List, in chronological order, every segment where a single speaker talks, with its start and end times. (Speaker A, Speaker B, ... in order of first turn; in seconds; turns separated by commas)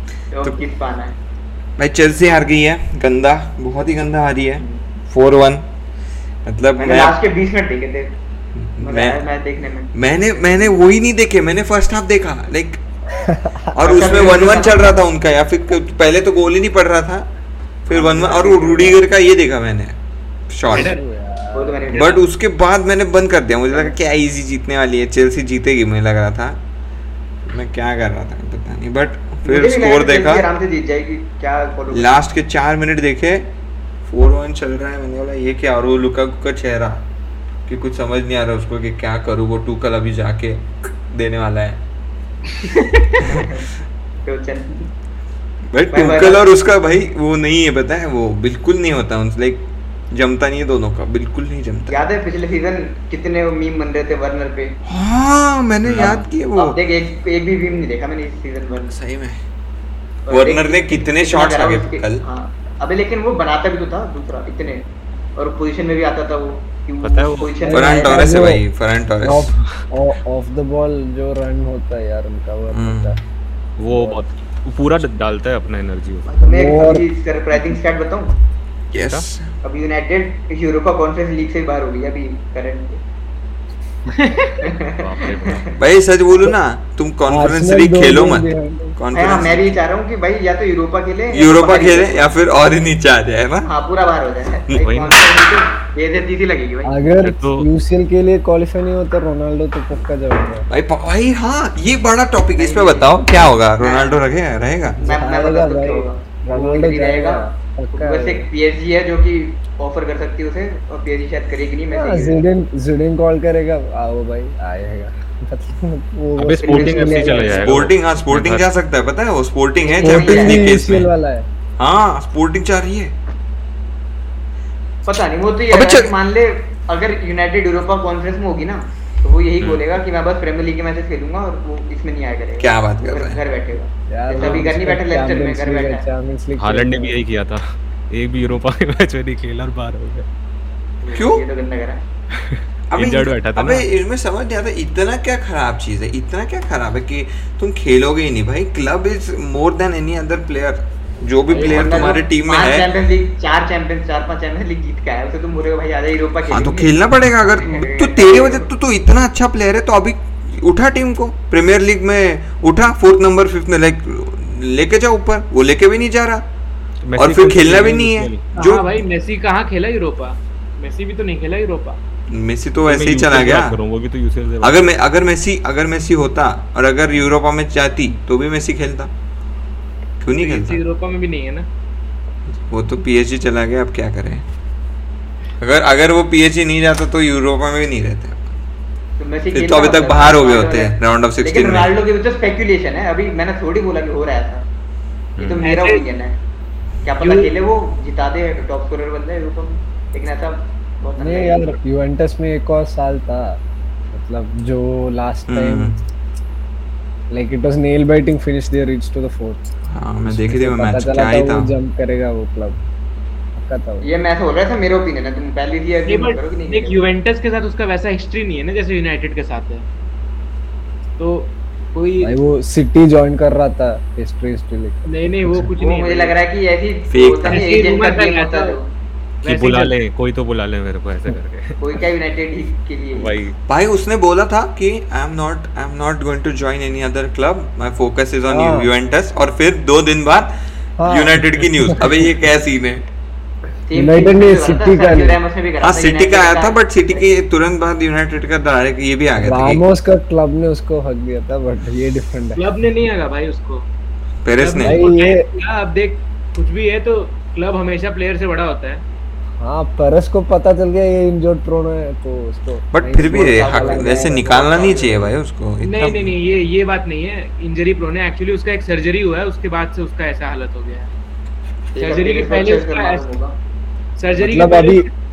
Speaker A: 0.3-1.2, Speaker B: 1.8-5.6, Speaker B: 6.4-7.2, Speaker A: 6.8-8.1, Speaker B: 8.6-9.2, Speaker A: 8.8-9.9, Speaker B: 9.9-12.8, Speaker C: 13.2-13.7, Speaker B: 13.7-17.2, Speaker A: 13.8-15.0, Speaker B: 17.9-20.0, Speaker A: 17.9-19.0, Speaker B: 20.5-20.9, Speaker D: 20.7-21.0, Speaker C: 20.7-21.9, Speaker A: 21.5-22.2, Speaker B: 21.9-26.6, Speaker A: 23.7-23.9, Speaker B: 27.4-30.4, Speaker A: 29.4-32.2, Speaker B: 31.9-33.5, Speaker B: 34.0-37.0, Speaker B: 37.7-41.8, Speaker B: 43.2-43.5, Speaker A: 43.2-43.6, Speaker A: 44.2-44.9, Speaker B: 45.7-52.0, Speaker A: 45.9-46.5, Speaker A: 51.9-54.7, Speaker B: 54.9-56.8, Speaker E: 55.8-56.3, Speaker A: 56.0-59.0, Speaker B: 58.9-59.4, Speaker A: 60.3-64.8, Speaker B: 60.3-62.2, Speaker A: 65.4-68.2, Speaker E: 67.0-67.5, Speaker C: 67.6-68.6, Speaker B: 67.7-69.5, Speaker C: 69.2-73.2, Speaker B: 72.7-73.1, Speaker E: 73.8-76.3, Speaker C: 73.8-74.2, Speaker A: 76.2-78.3, Speaker C: 76.4-77.7, Speaker B: 78.9-79.5, Speaker A: 79.6-83.0, Speaker D: 84.1-84.7, Speaker A: 84.6-85.7, Speaker E: 85.0-85.8, Speaker B: 85.8-89.8, Speaker C: 87.2-89.0, Speaker A: 89.1-92.2, Speaker B: 91.3-93.7, Speaker A: 93.6-97.0, Speaker E: 94.8-95.4, Speaker C: 96.8-100.7, Speaker E: 97.2-97.7, Speaker B: 100.7-105.0, Speaker A: 102.6-103.2, Speaker A: 103.8-104.2, Speaker C: 105.0-108.5, Speaker A: 105.0-107.4, Speaker A: 107.9-112.4, Speaker C: 111.9-117.6, Speaker E: 116.4-118.7, Speaker A: 116.6-117.8, Speaker B: 117.6-121.1, Speaker A: 119.8-120.8, Speaker C: 120.0-121.5, Speaker B: 121.8-123.1, Speaker A: 125.1-136.0, Speaker B: 125.7-126.1, Speaker E: 129.6-130.0, Speaker B: 132.6-133.4, Speaker C: 134.1-137.2, Speaker E: 136.6-140.3, Speaker A: 141.0-142.0, Speaker B: 141.1-141.4, Speaker E: 142.3-143.8, Speaker B: 142.9-152.9, Speaker A: 151.5-156.9, Speaker E: 151.6-152.1, Speaker B: 156.5-166.4, Speaker A: 157.6-158.7, Speaker E: 167.1-168.5, Speaker B: 167.2-169.0, Speaker D: 168.5-172.0, Speaker B: 172.3-173.8, Speaker E: 172.8-174.9, Speaker B: 174.6-179.1, Speaker B: 180.2-180.8, Speaker D: 180.4-181.7, Speaker B: 182.5-184.4, Speaker B: 185.6-188.5, Speaker A: 189.2-194.6, Speaker B: 189.5-191.9, Speaker E: 195.4-195.6, Speaker A: 195.4-196.3, Speaker D: 195.6-196.1, Speaker A: 197.0-201.8, Speaker D: 197.2-197.5, Speaker C: 201.2-203.6, Speaker C: 204.1-205.9, Speaker B: 205.5-205.9, Speaker C: 207.3-209.7, Speaker B: 209.9-211.7, Speaker C: 210.3-212.8, Speaker C: 213.5-214.1, Speaker A: 214.0-217.1, Speaker D: 216.1-219.8, Speaker D: 221.2-222.4, Speaker C: 222.2-225.0, Speaker D: 225.1-226.4, Speaker A: 225.8-228.9, Speaker B: 227.1-227.7, Speaker D: 227.5-228.8, Speaker E: 229.4-232.0, Speaker D: 229.4-229.9, Speaker A: 231.8-233.4, Speaker E: 233.1-233.6, Speaker B: 233.7-240.5, Speaker C: 238.5-238.9, Speaker C: 241.0-242.3, Speaker B: 241.1-243.0, Speaker A: 243.8-247.5, Speaker C: 243.9-245.4, Speaker B: 245.8-249.8, Speaker C: 249.4-252.6, Speaker D: 252.6-253.8, Speaker B: 254.4-255.0, Speaker D: 254.6-259.0, Speaker C: 254.8-255.5, Speaker C: 259.6-264.5, Speaker B: 262.9-266.3, Speaker A: 263.3-265.3, Speaker D: 265.8-271.1, Speaker A: 271.9-273.6, Speaker D: 272.0-273.3, Speaker D: 274.2-275.1, Speaker C: 274.4-275.1